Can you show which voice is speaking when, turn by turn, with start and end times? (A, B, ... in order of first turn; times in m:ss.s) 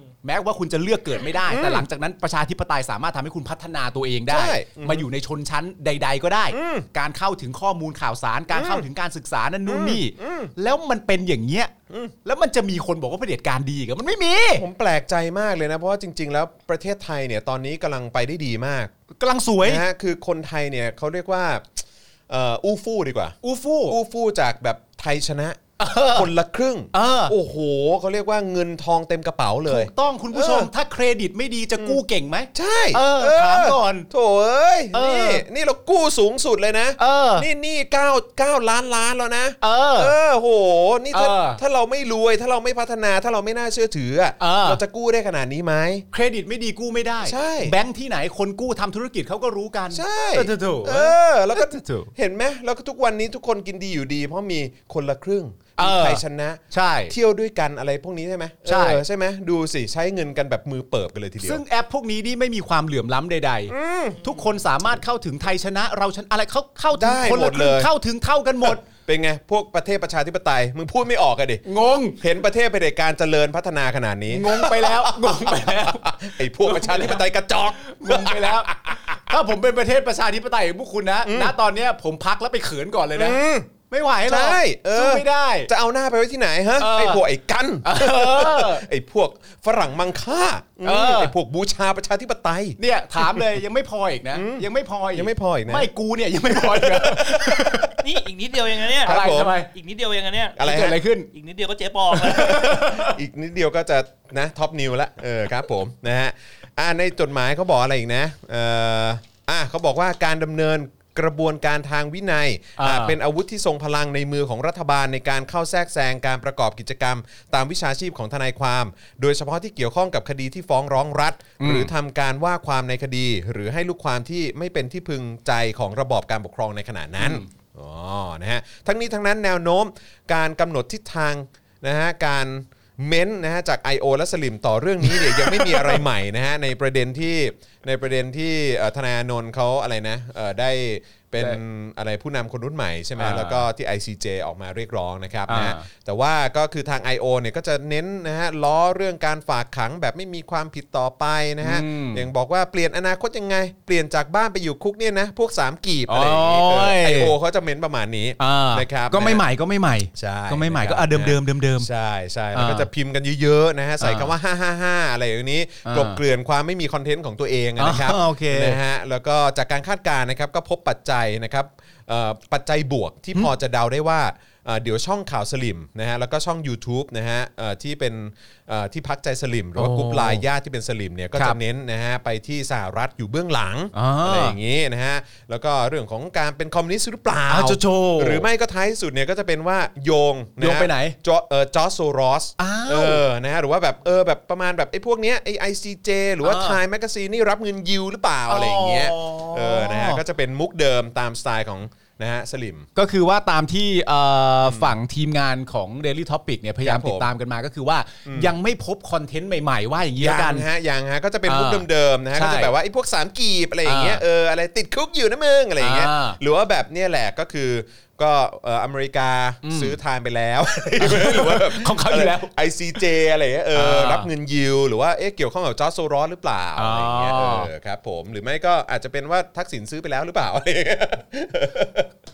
0:00.2-0:11.7 A
0:01.5-0:01.9 B
0:04.3-0:05.1 B
0:06.5-0:06.9 B
0:08.5-0:08.9 B
0:09.7-0:10.5 B
0:12.2-0:14.6 A
0:14.6-0:18.9 B
0:19.2-0:19.8 A
0:19.6-0:23.4 B
0:23.4-0:24.0 A
0:23.9-0:30.7 B
0:25.8-0:26.3 A
0:26.9-0:27.4 A
0:29.7-0:34.1 A
0:32.5-0:46.1 B
0:34.9-0:35.4 A
0:37.0-0:37.5 A
0:39.6-0:40.1 A
0:41.1-0:41.6 A
0:44.4-0:44.8 A
0:46.1-0:52.1 A
0:47.2-0:47.8 B
0:49.9-1:01.6 B
0:55.8-0:57.2 A
0:58.6-0:59.0 A
1:01.4-1:08.8 A
1:03.7-1:04.2 B
1:06.9-1:07.9 B
1:08.6-1:11.6 B
1:11.6-1:12.2 A
1:12.2-1:19.4 B
1:14.3-1:17.2 A
1:17.8-1:25.7 A
1:21.2-1:21.6 B
1:23.2-1:23.7 B
1:24.2-1:33.6 B
1:26.8-1:27.2 A
1:27.8-1:28.9 A
1:30.8-1:31.3 A
1:32.8-1:38.0 A
1:34.3-1:35.9 B
1:36.6-1:37.9 B
1:38.0-1:40.7 C
1:39.0-1:39.6 B
1:39.0-1:39.7 A
1:40.6-1:41.0 B
1:40.6-1:41.3 A
1:41.3-1:42.8 C
1:42.1-2:39.4 B
1:42.2-1:43.2 A
1:52.8-1:53.2 A
2:01.6-2:01.9 A
2:07.2-2:07.5 A
2:15.6-2:15.9 A
2:23.2-2:23.7 A
2:25.5-2:25.9 A
2:31.6-2:32.3 A
2:36.1-2:37.4 A
2:38.4-2:41.9 A
2:40.2-3:22.9 B
2:42.5-2:42.9 A
2:44.0-2:44.3 A
2:45.8-2:46.2 A
2:47.8-2:48.8 A
2:59.8-3:00.4 A
3:03.9-3:04.6 A
3:07.5-3:08.5 A
3:10.6-3:11.2 A
3:12.6-3:13.2 A
3:16.4-3:16.8 A
3:18.5-3:20.2 A
3:23.0-3:30.7 A
3:24.6-3:25.0 B
3:26.8-3:27.3 B
3:28.3-3:28.5 B
3:30.2-3:52.1 B
3:31.5-3:32.7 A
3:33.8-3:34.2 A
3:35.8-3:36.4 A
3:39.6-3:40.0 A
3:41.0-3:42.5 A
3:43.7-3:44.3 A
3:46.8-3:47.7 A